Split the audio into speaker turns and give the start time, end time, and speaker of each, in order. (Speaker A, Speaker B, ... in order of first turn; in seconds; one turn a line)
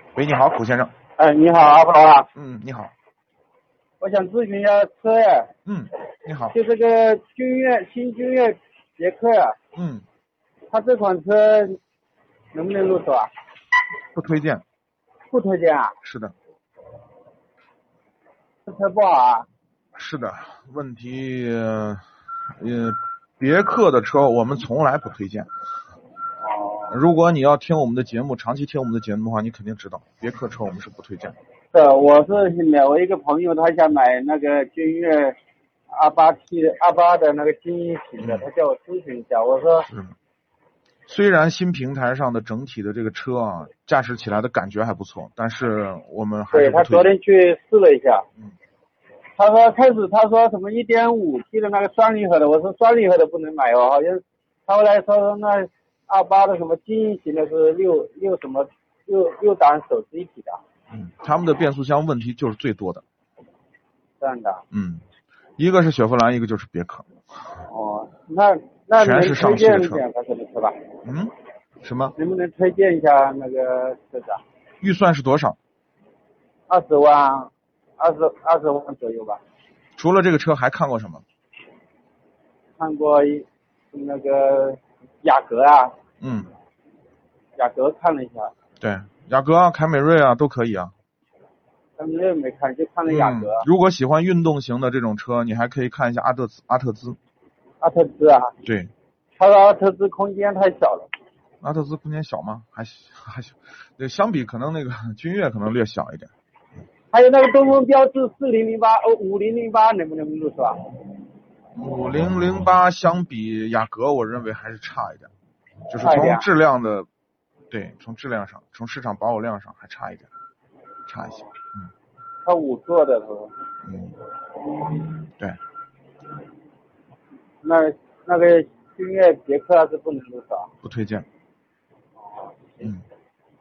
Speaker A: 0.1-0.9
Speaker B: 1.2-2.3
Speaker A: 2.3-2.9
Speaker B: 4.0-5.5
Speaker A: 5.7-6.5
Speaker B: 6.5-9.6
Speaker A: 9.7-10.0
Speaker B: 10.7-11.8
Speaker B: 12.5-13.3
Speaker A: 14.1-14.6
Speaker B: 15.3-15.9
Speaker A: 16.0-16.3
Speaker B: 18.6-19.5
Speaker A: 19.9-22.0
Speaker A: 22.6-25.5
Speaker B: 26.4-27.0
Speaker A: 26.9-31.4
Speaker B: 31.7-35.4
Speaker B: 35.9-39.9
Speaker A: 38.2-38.5
Speaker A: 39.9-40.1
Speaker A: 41.1-47.1
Speaker B: 46.5-48.2
Speaker B: 49.4-60.6
Speaker A: 60.9-63.0
Speaker B: 64.2-64.6
Speaker A: 64.7-65.0
Speaker A: 65.6-67.1
Speaker B: 67.7-70.8
Speaker A: 69.0-70.0
Speaker A: 71.0-72.1
Speaker B: 72.1-74.4
Speaker A: 74.8-75.6
Speaker B: 76.7-79.4
Speaker A: 80.0-81.2
Speaker B: 82.8-85.9
Speaker A: 86.2-86.5
Speaker B: 87.6-88.5
Speaker A: 88.8-90.9
Speaker B: 92.0-93.7
Speaker A: 93.0-97.2
Speaker B: 97.8-98.5
Speaker A: 98.6-98.9
Speaker B: 99.4-101.1
Speaker A: 101.6-106.3
Speaker B: 107.1-110.8
Speaker A: 111.7-115.3
Speaker A: 115.9-117.1
Speaker B: 116.0-116.5
Speaker A: 117.7-120.3
Speaker A: 121.1-121.9
Speaker B: 122.4-123.5
Speaker A: 123.8-124.2
Speaker B: 127.6-130.7
Speaker A: 130.8-131.2
Speaker B: 132.2-132.9